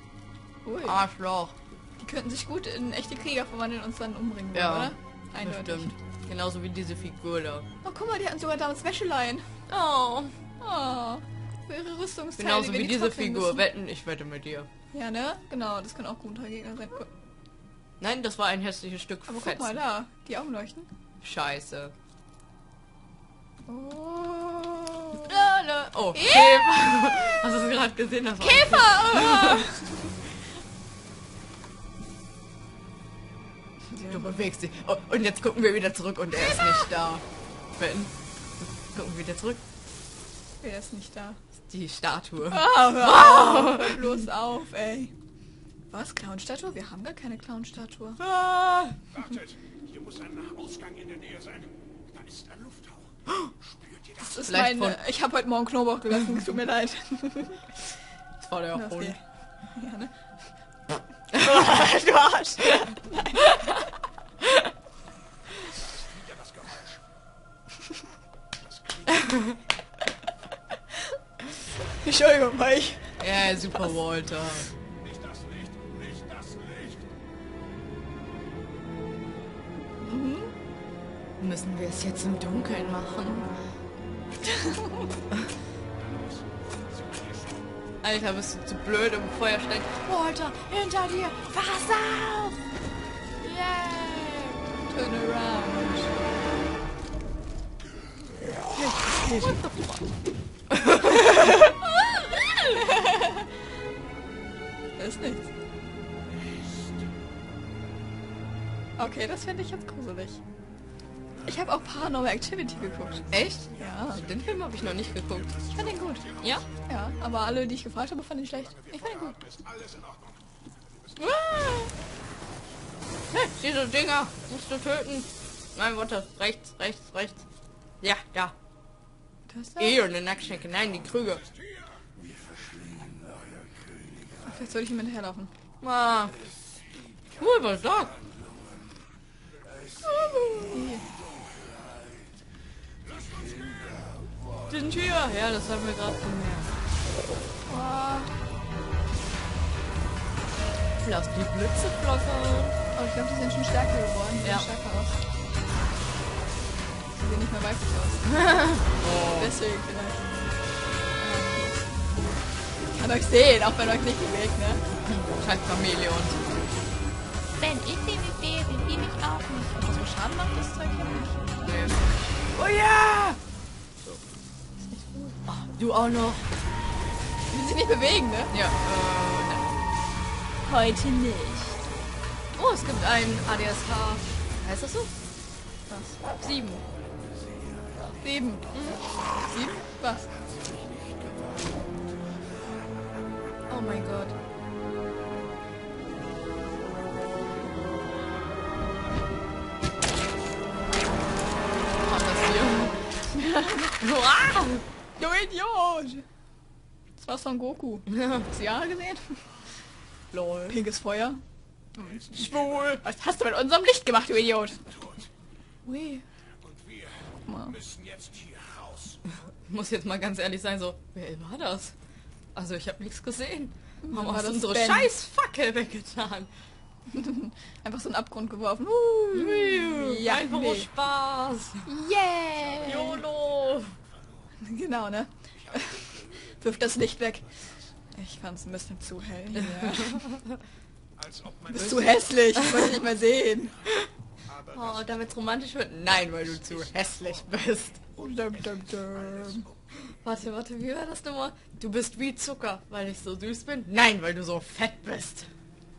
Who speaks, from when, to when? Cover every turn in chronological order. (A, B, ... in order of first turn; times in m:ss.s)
0:00.6-0:01.0 A
0:00.8-0:01.5 B
0:02.0-0:05.9 A
0:04.5-0:07.6 B
0:07.8-0:09.5 A
0:09.7-0:10.4 B
0:10.6-0:13.7 A
0:12.4-0:14.7 B
0:14.9-0:17.1 A
0:18.0-0:19.8 B
0:19.3-0:20.9 A
0:21.2-0:21.9 B
0:23.7-0:25.3 A
0:25.2-0:29.7 B
0:26.1-0:26.7 A
0:28.4-0:30.1 A
0:33.9-0:34.3 A
0:34.1-0:37.2 B
0:36.6-0:36.9 A
0:37.8-0:38.1 B
0:38.9-0:39.6 B
0:40.6-0:41.4 A
0:41.6-0:44.1 B
0:42.5-0:45.1 A
0:45.9-0:48.2 A
0:48.2-0:49.0 B
0:49.1-0:53.1 C
0:54.2-0:57.8 A
0:54.4-0:55.0 B
0:58.4-0:59.2 B
0:58.7-0:59.2 A
0:59.7-1:00.2 A
1:01.3-1:03.9 A
1:01.3-1:02.0 B
1:05.8-1:07.0 C
1:08.7-1:09.4 C
1:09.3-1:09.6 B
1:11.9-1:13.9 A
1:13.2-1:14.7 B
1:15.0-1:17.0 C
1:20.0-1:20.5 A
1:21.4-1:23.5 B
1:24.4-1:25.2 A
1:26.1-1:27.5 C
1:28.0-1:32.6 B
1:33.4-1:36.2 A
1:38.7-1:39.5 A
1:39.1-1:40.1 B
1:40.7-1:41.5 B
1:41.0-1:43.5 A
1:45.0-1:45.5 A
1:49.0-1:50.4 A
1:51.4-1:54.2 A
1:53.3-1:55.6 B
1:53.4-1:56.6 C
1:55.7-1:56.2 A
1:56.4-1:56.6 B
1:56.9-1:59.4 A
1:58.7-2:00.4 C
2:01.2-2:01.9 A
2:03.3-2:07.4 B
2:08.0-2:08.5 B
2:09.5-2:10.0 A
2:09.8-2:11.4 B
2:14.4-2:15.5 A
2:15.8-2:16.4 B
2:17.4-2:18.2 B
2:20.0-2:20.8 B
2:20.6-2:21.0 A
2:23.3-2:24.1 C
2:24.7-2:26.7 B
2:27.6-2:28.3 A
2:31.0-2:32.8 B
2:32.9-2:35.2 A
2:34.4-2:34.7 B
2:37.1-2:38.5 A
2:38.5-2:39.6 B
2:39.4-2:40.2 A
2:41.2-2:41.8 A
2:42.9-2:44.8 A
2:45.0-2:46.6 B
2:47.6-2:51.7 A
2:51.6-2:52.0 B
2:52.5-2:53.4 B
2:54.8-2:55.4 A
2:55.4-2:56.5 B
2:57.5-2:58.5 A
2:58.5-2:59.8 B
3:00.6-3:01.8 A
3:02.5-3:05.1 B
3:05.9-3:06.2 A
3:06.3-3:06.8 B
3:08.1-3:10.4 A
3:08.7-3:09.0 B
3:13.7-3:14.4 B
3:22.0-3:23.3 B
3:23.3-3:24.0 A
3:24.0-3:24.8 B
3:25.2-3:26.2 A
3:27.2-3:29.5 A
3:28.1-3:28.4 B
3:30.3-3:30.8 B
3:30.7-3:31.4 A
3:32.0-3:34.9 A
3:35.8-3:36.2 A
3:36.7-3:39.2 C
3:37.4-3:37.8 A
3:39.5-3:41.9 B
3:42.5-3:46.5 B
3:44.0-3:45.1 A
3:47.1-3:50.9 A
3:49.3-3:51.8 B
3:51.8-3:53.2 A
3:52.8-3:54.0 B
3:54.6-4:00.4 A
3:55.8-3:56.6 C
3:59.6-4:00.4 B
4:01.2-4:02.6 C
4:01.7-4:03.9 A
4:04.5-4:05.1 C
4:04.7-4:08.0 B
4:08.2-4:09.6 A
4:10.1-4:15.5 B